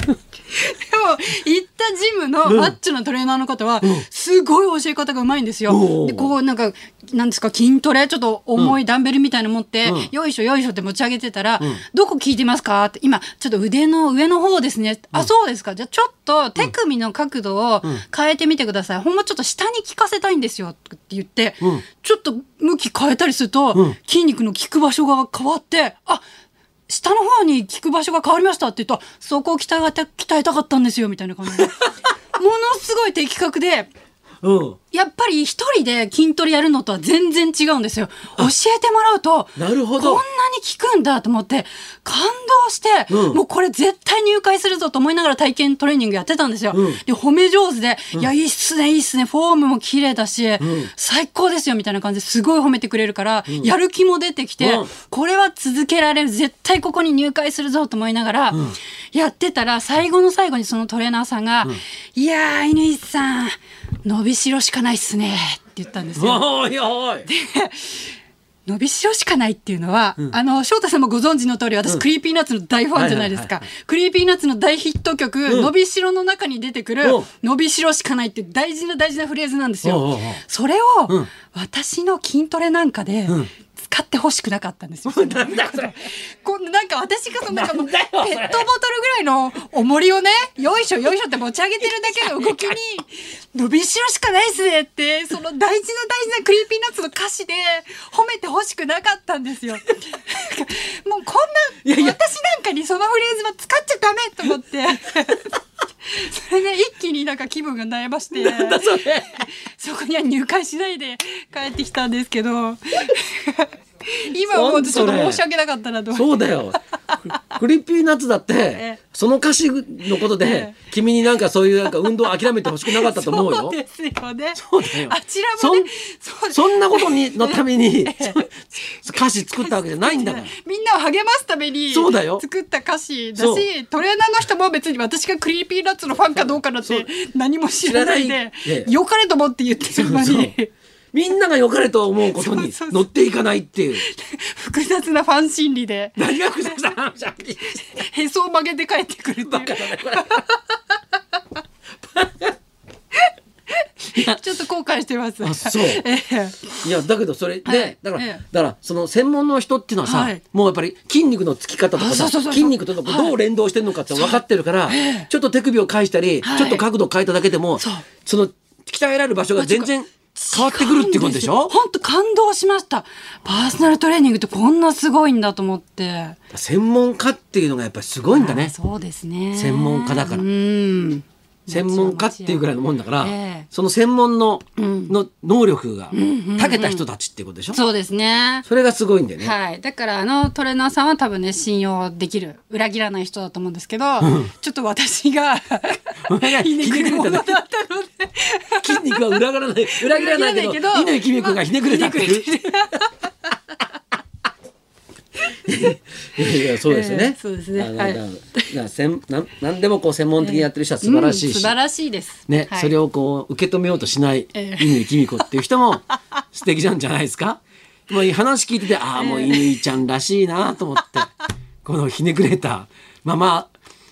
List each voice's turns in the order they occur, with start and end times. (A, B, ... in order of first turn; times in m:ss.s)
0:00.5-0:26.2 A
0:02.4-0:02.7 B
0:05.7-0:06.3 B
0:09.8-0:10.1 B
0:26.9-0:31.8 A
0:32.3-0:33.9 A
0:34.4-0:34.8 B
0:34.9-1:06.4 A
0:39.6-0:40.2 B
0:43.1-0:43.4 B
0:46.7-0:47.0 B
0:50.6-0:50.9 B
0:54.6-0:54.9 B
1:06.2-1:07.3 B
1:07.2-1:45.5 A
1:12.9-1:13.6 B
1:17.0-1:17.3 B
1:19.8-1:20.4 B
1:25.1-1:26.0 B
1:27.5-1:28.6 B
1:31.8-1:32.7 B
1:41.8-1:42.2 B
1:46.0-1:56.4 A
1:48.3-1:49.4 B
1:54.5-1:55.4 B
1:56.1-1:56.8 B
1:57.5-2:03.8 B
2:00.2-2:00.8 A
2:01.8-2:08.4 A
2:04.6-2:05.9 B
2:06.5-2:10.5 B
2:09.3-2:20.7 A
2:11.9-2:12.4 B
2:13.4-2:13.6 B
2:16.3-2:17.1 B
2:17.8-2:18.9 B
2:19.9-2:20.5 B
2:21.1-2:24.0 B
2:22.3-2:23.1 A
2:23.9-2:26.9 A
2:26.2-2:27.8 B
2:27.8-2:30.6 A
2:29.4-2:30.4 B
2:32.1-2:32.5 B
2:34.1-2:36.8 A
2:35.4-2:36.0 B
2:36.8-2:51.7 B
2:37.6-2:38.4 A
2:40.0-2:40.4 A
2:41.9-2:43.4 A
2:44.1-2:45.3 A
2:46.4-2:46.8 A
2:47.8-2:48.0 A
2:49.6-2:56.4 A
2:56.5-2:58.7 B
2:58.3-3:02.6 A
2:59.5-3:00.4 B
3:01.7-3:07.8 B
3:03.2-3:03.7 A
3:04.8-3:05.1 A
3:06.1-3:07.0 A
3:07.7-3:08.6 A
3:08.6-3:09.5 B
3:09.4-3:23.1 A
3:14.2-3:14.5 B
3:16.3-3:17.6 B
3:18.8-3:22.5 B
3:25.6-3:31.7 B
3:26.5-3:28.7 A
3:30.4-3:32.9 A
3:32.5-3:43.7 B
3:34.5-3:35.4 A
3:39.2-3:39.8 A